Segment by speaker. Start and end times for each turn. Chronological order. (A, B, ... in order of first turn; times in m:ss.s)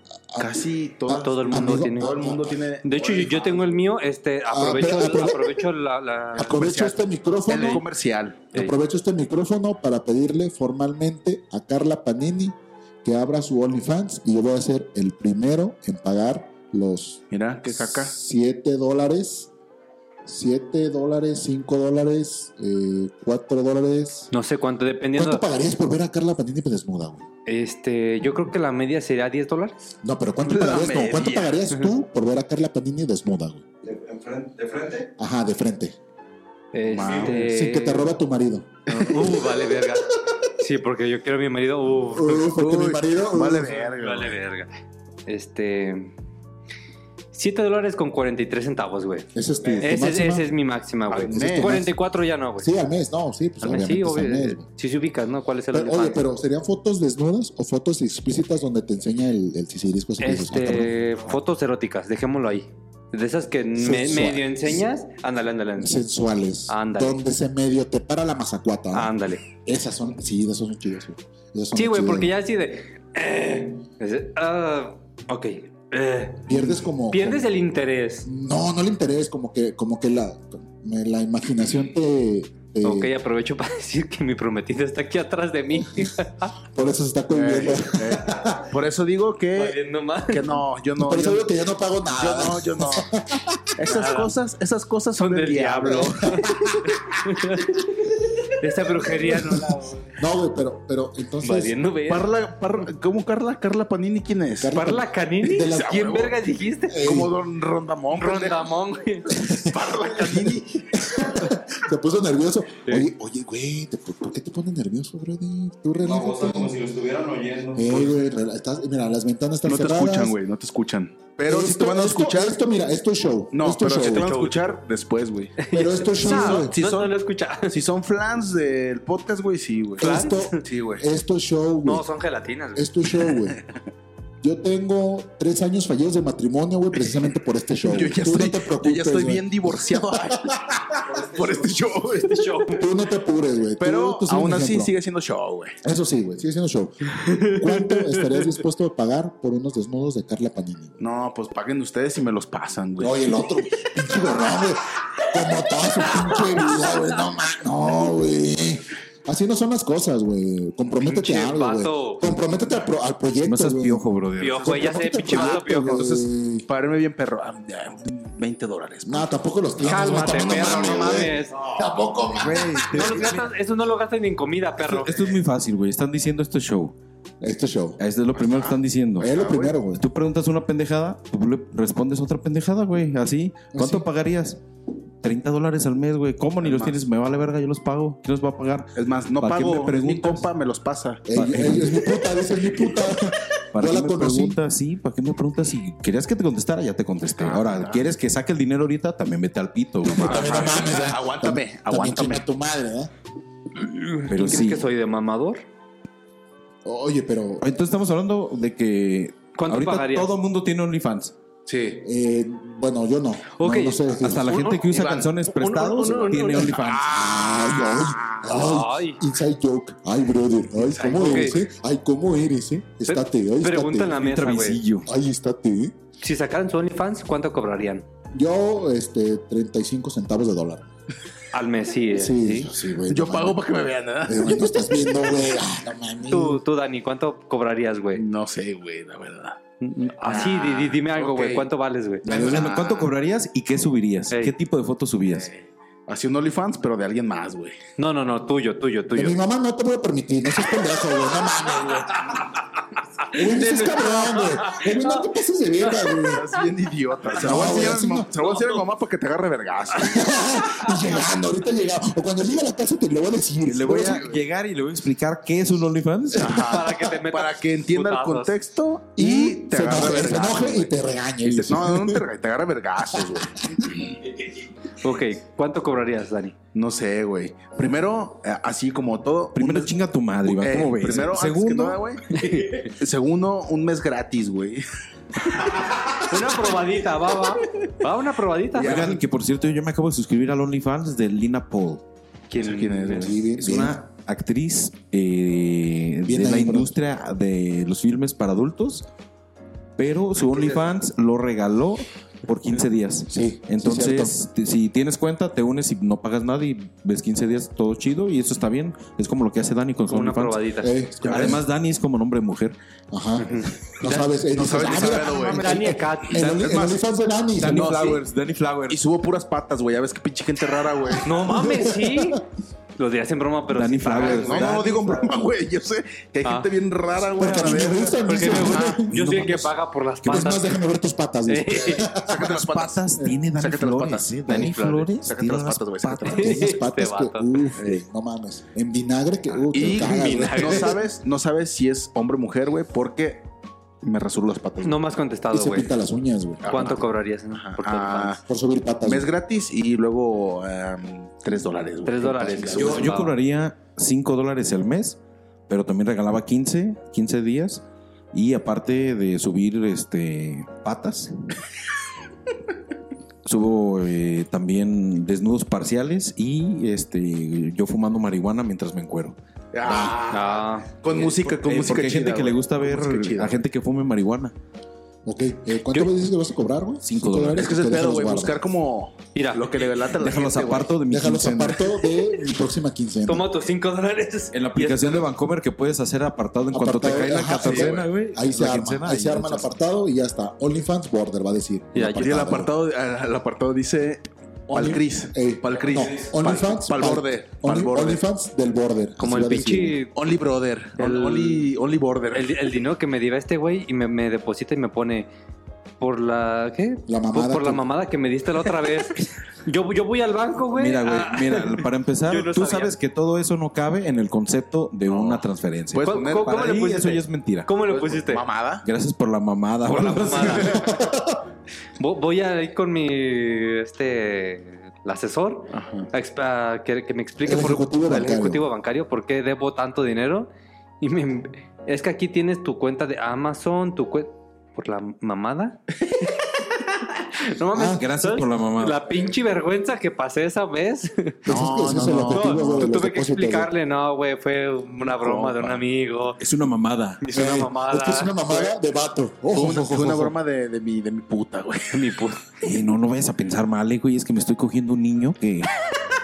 0:00.3-0:02.6 A
0:00.4-0:03.7 B
0:01.1-0:02.1 C
0:02.8-0:06.6 C
0:04.5-0:05.6 A
0:06.4-0:07.8 A
0:06.4-0:08.5 B
0:07.5-0:07.8 C
0:08.5-0:19.5 A
0:17.3-0:18.1 B
0:20.2-0:24.3 A
0:24.3-0:25.4 C
0:25.2-0:27.2 A
0:27.4-0:29.8 C
0:30.0-0:33.6 A
0:30.4-0:31.6 B
0:33.8-0:35.1 D
0:35.2-0:36.0 A
0:36.7-0:38.1 C
0:36.9-0:37.4 B
0:37.0-0:39.6 A
0:38.9-0:42.5 C
0:39.0-0:39.3 B
0:42.0-0:43.8 A
0:42.5-0:44.4 B
0:43.9-0:44.7 C
0:45.3-0:46.1 C
0:47.3-0:52.7 C
0:49.3-0:50.5 A
0:51.1-0:51.8 B
0:51.3-0:51.9 A
0:52.6-0:54.6 A
0:53.6-0:56.2 C
0:55.7-1:00.9 A
1:00.2-1:06.0 C
1:03.8-1:04.8 A
1:05.8-1:12.3 A
1:06.7-1:07.2 C
1:08.9-1:09.4 C
1:11.7-1:18.3 C
1:16.5-1:17.5 A
1:18.2-1:23.1 A
1:22.8-1:26.5 C
1:26.7-1:28.7 A
1:27.3-1:31.5 B
1:29.5-1:30.6 C
1:31.0-1:33.7 A
1:32.1-1:33.1 B
1:33.8-1:36.3 B
1:33.8-1:34.3 C
1:35.2-1:40.1 C
1:36.4-1:36.9 A
1:38.9-1:41.8 A
1:41.4-1:42.3 C
1:42.1-1:44.8 B
1:44.6-1:46.3 A
1:44.7-1:47.0 C
1:45.6-1:46.4 B
1:46.9-1:47.3 A
1:47.0-1:48.7 B
1:48.1-1:49.3 C
1:49.3-1:56.8 A
1:49.6-1:50.8 B
1:56.0-1:58.1 D
1:57.7-2:00.4 A
1:59.6-2:02.6 B
2:01.4-2:04.3 A
2:03.5-2:05.6 B
2:03.9-2:04.8 C
2:05.6-2:07.8 C
2:05.7-2:06.8 A
2:06.2-2:07.1 B
2:07.7-2:11.0 B
2:10.0-2:12.0 A
2:10.0-2:10.6 C
2:11.8-2:12.9 C
2:12.7-2:13.6 A
2:14.4-2:20.9 A
2:17.8-2:22.6 B
2:22.2-2:22.9 C
2:22.7-2:24.9 A
2:23.8-2:25.8 B
2:25.8-2:31.0 A
2:27.1-2:28.4 C
2:31.0-2:33.2 B
2:33.0-2:44.0 A
2:41.0-2:42.2 C
2:43.4-2:44.9 D
2:44.4-2:46.1 C
2:44.6-2:46.7 A
2:45.4-2:51.3 B
2:49.0-2:53.2 A
2:49.8-2:51.6 C
2:52.3-2:53.4 B
2:52.9-2:55.3 C
2:54.8-2:56.9 D
2:57.4-2:58.0 A
2:58.0-2:59.3 D
2:58.3-2:59.7 B
2:59.2-3:00.0 A
2:59.9-3:04.6 D
3:03.7-3:04.1 A
3:05.2-3:10.5 D
3:06.6-3:07.0 B
3:09.0-3:11.2 B
3:11.3-3:14.6 A
3:11.3-3:12.2 D
3:13.7-3:20.7 D
3:17.3-3:18.1 B
3:20.0-3:23.1 A
3:20.1-3:22.4 B
3:23.8-3:25.6 C
3:24.3-3:24.9 D
3:26.8-3:27.7 A
3:27.6-3:31.3 D
3:29.6-3:30.3 C
3:31.7-3:32.0 B
3:32.0-3:34.5 A
3:33.6-3:36.8 C
3:34.2-3:37.1 D
3:34.9-3:35.3 B
3:36.0-3:38.6 B
3:37.0-3:44.2 A
3:38.4-3:39.2 C
3:40.8-3:41.5 B
3:41.1-3:41.6 C
3:43.1-3:44.8 C
3:44.1-3:45.1 D
3:45.0-3:45.9 A
3:46.2-3:48.0 C
3:48.3-3:50.9 A
3:51.5-3:52.7 C
3:52.1-3:53.6 A
3:53.1-3:54.7 B
3:54.2-3:56.6 A
3:56.3-3:58.2 C
3:58.1-3:59.6 B
3:59.8-4:02.3 C
4:00.2-4:01.7 B
4:02.2-4:03.1 B
4:02.2-4:05.5 D
4:02.3-4:02.7 A
4:05.3-4:07.8 B
4:08.0-4:09.4 C
4:09.1-4:12.5 A
4:13.3-4:15.2 C
4:13.3-4:16.5 A
4:16.2-4:20.3 B
4:17.3-4:18.3 A
4:20.0-4:24.2 A
4:23.7-4:26.7 D
4:23.8-4:24.4 B
4:26.3-4:30.9 B
4:26.5-4:28.5 C
4:29.2-4:32.2 A
4:31.4-4:34.2 B
4:33.2-4:33.9 A
4:35.0-4:36.5 C
4:36.7-4:39.9 B
4:39.5-4:42.1 D
4:40.4-4:44.8 B
4:42.3-4:42.9 C
4:45.5-4:45.8 B
4:46.2-4:49.1 C
4:48.7-4:49.2 B
4:48.8-4:52.0 D
4:52.5-4:53.2 C
4:52.5-4:53.4 B
4:52.6-4:59.0 D
4:53.1-4:54.0 A
4:56.2-4:57.0 A
5:00.0-5:10.6 D
5:03.3-5:04.4 A
5:10.1-5:10.9 C
5:10.8-5:11.6 A
5:11.2-5:11.6 B
5:11.2-5:12.8 D
5:13.1-5:18.1 A
5:13.4-5:13.7 C
5:14.0-5:16.9 B
5:15.2-5:16.5 C
5:16.4-5:16.9 D
5:17.6-5:19.0 D
5:17.6-5:18.2 B
5:18.9-5:21.3 B
5:21.2-5:22.4 C
5:21.4-5:22.4 A
5:23.0-5:25.2 C
5:23.7-5:25.3 D
5:24.1-5:29.0 B
5:26.4-5:26.7 C
5:27.4-5:29.2 A
5:28.2-5:30.7 C
5:29.1-5:29.7 D
5:30.2-5:30.6 D
5:30.2-5:32.6 A
5:31.5-5:32.1 C
5:32.2-5:33.0 B
5:32.3-5:36.7 D
5:33.5-5:36.5 B
5:34.5-5:35.0 C
5:36.3-5:37.6 C
5:36.3-5:41.0 A
5:39.7-5:43.4 B
5:39.8-5:40.9 C
5:44.0-5:45.0 B
5:44.8-5:45.9 C
5:45.5-5:46.8 A
5:46.6-5:48.4 B
5:46.6-5:48.4 C
5:48.4-5:49.3 A
5:49.0-5:53.1 B
5:52.0-5:53.3 C
5:52.7-6:01.3 D
6:03.4-6:10.2 D
6:09.7-6:13.6 B
6:10.3-6:10.9 C
6:11.1-6:14.5 D
6:15.2-6:18.6 A
6:17.0-6:17.8 D
6:17.6-6:20.9 B
6:19.3-6:19.7 C
6:19.8-6:21.9 D
6:21.1-6:23.5 A
6:23.2-6:25.2 C
6:24.5-6:29.7 D
6:26.7-6:32.7 A
6:27.6-6:28.0 B
6:31.9-6:32.4 C
6:32.1-6:38.2 B
6:34.7-6:40.0 A
6:39.2-6:40.1 C
6:40.1-6:42.5 B
6:41.0-6:41.7 C
6:42.3-6:45.3 C
6:46.0-6:52.9 C
6:47.1-6:47.8 A
6:50.7-6:57.7 D
6:55.1-6:57.2 B
6:56.0-6:58.4 C
6:57.9-6:58.8 B
6:58.8-7:00.8 D
6:59.9-7:00.8 B
7:00.0-7:00.8 C
7:00.7-7:01.4 A
7:02.0-7:10.5 C
7:05.7-7:06.1 B
7:07.4-7:08.6 A
7:11.0-7:15.8 C
7:16.6-7:21.6 C
7:17.7-7:18.0 A
7:17.8-7:19.0 D
7:21.4-7:23.7 A
7:21.5-7:22.9 B
7:22.3-7:26.4 C
7:25.0-7:25.8 B
7:26.4-7:27.5 D
7:27.2-7:28.7 C
7:27.3-7:30.3 A
7:29.5-7:32.1 B
7:31.9-7:32.4 C
7:32.6-7:35.7 D